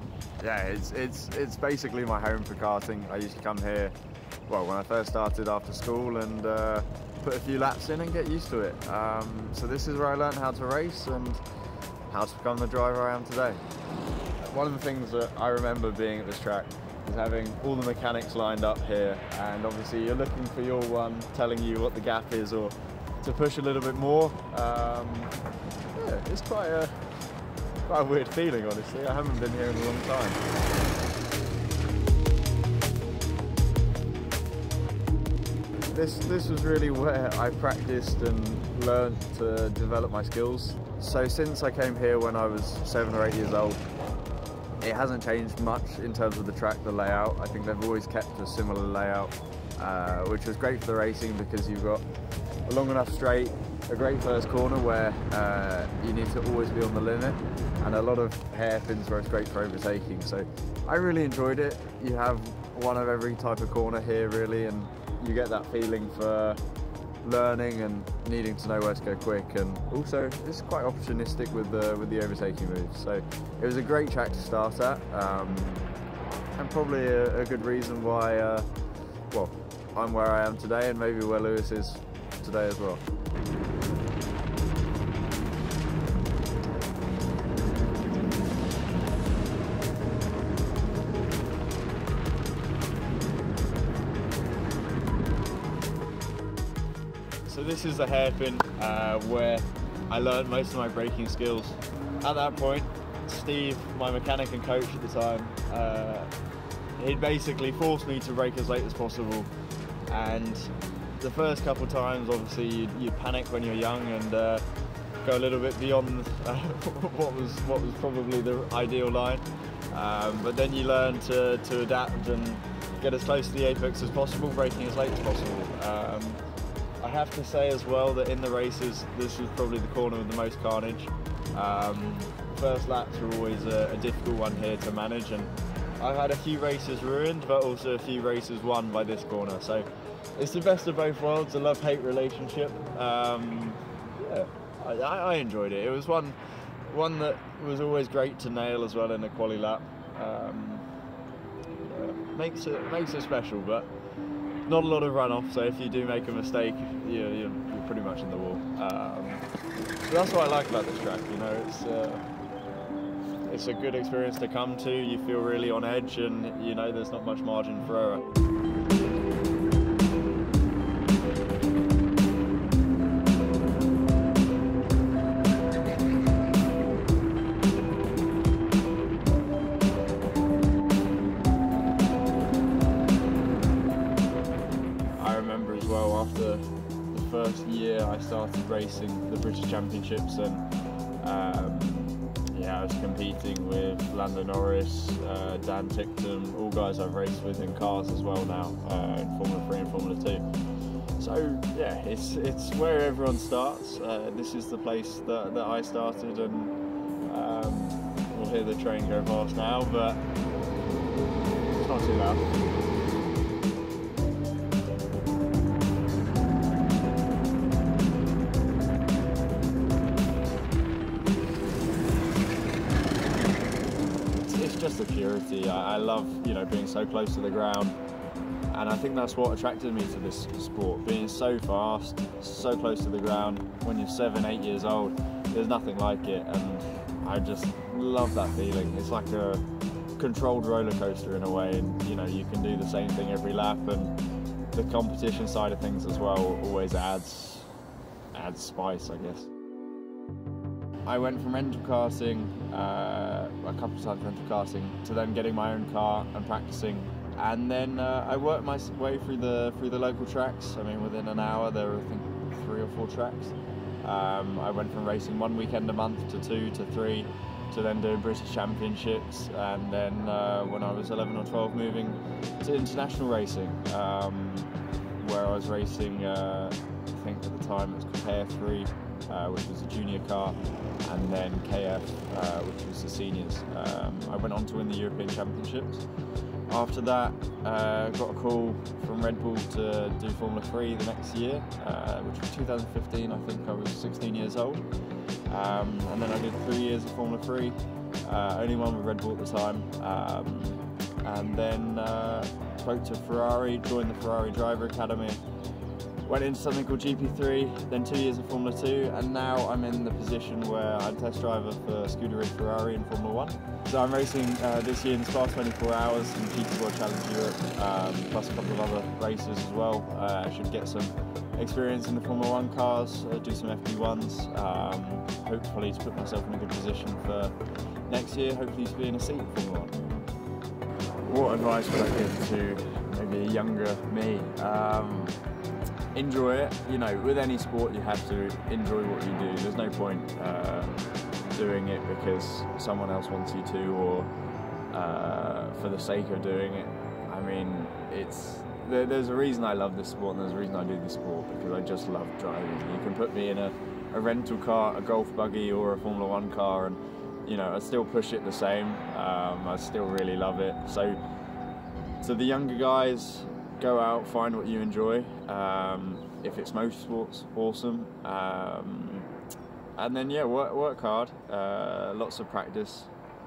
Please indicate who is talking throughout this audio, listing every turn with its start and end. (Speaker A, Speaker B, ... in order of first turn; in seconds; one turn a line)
Speaker A: 0.4-4.0
Speaker A: 4.5-11.4
Speaker A: 12.1-13.6
Speaker A: 14.4-25.4
Speaker A: 25.9-27.1
Speaker A: 27.9-30.4
Speaker A: 35.9-43.9
Speaker A: 44.8-52.0
Speaker A: 52.7-66.6
Speaker A: 67.2-75.9
Speaker A: 76.6-78.7
Speaker A: 79.3-83.0
Speaker A: 97.5-106.3
Speaker A: 107.0-109.5
Speaker A: 110.1-114.7
Speaker A: 115.2-126.4
Speaker A: 127.0-150.9
Speaker A: 151.8-153.9
Speaker A: 154.7-159.5
Speaker A: 160.1-162.3
Speaker A: 163.4-168.3
Speaker A: 185.2-190.7
Speaker A: 191.2-200.5
Speaker A: 201.2-210.2
Speaker A: 211.8-212.5
Speaker A: 224.4-228.0
Speaker A: 228.7-239.7
Speaker A: 240.2-244.2
Speaker A: 244.7-247.7
Speaker A: 248.3-249.5
Speaker A: 251.1-286.1
Speaker A: 286.7-294.9
Speaker A: 295.5-305.4
Speaker A: 306.2-330.1
Speaker A: 331.3-335.4
Speaker A: 336.1-344.3
Speaker A: 344.9-361.2
Speaker A: 362.2-369.3
Speaker A: 370.0-373.1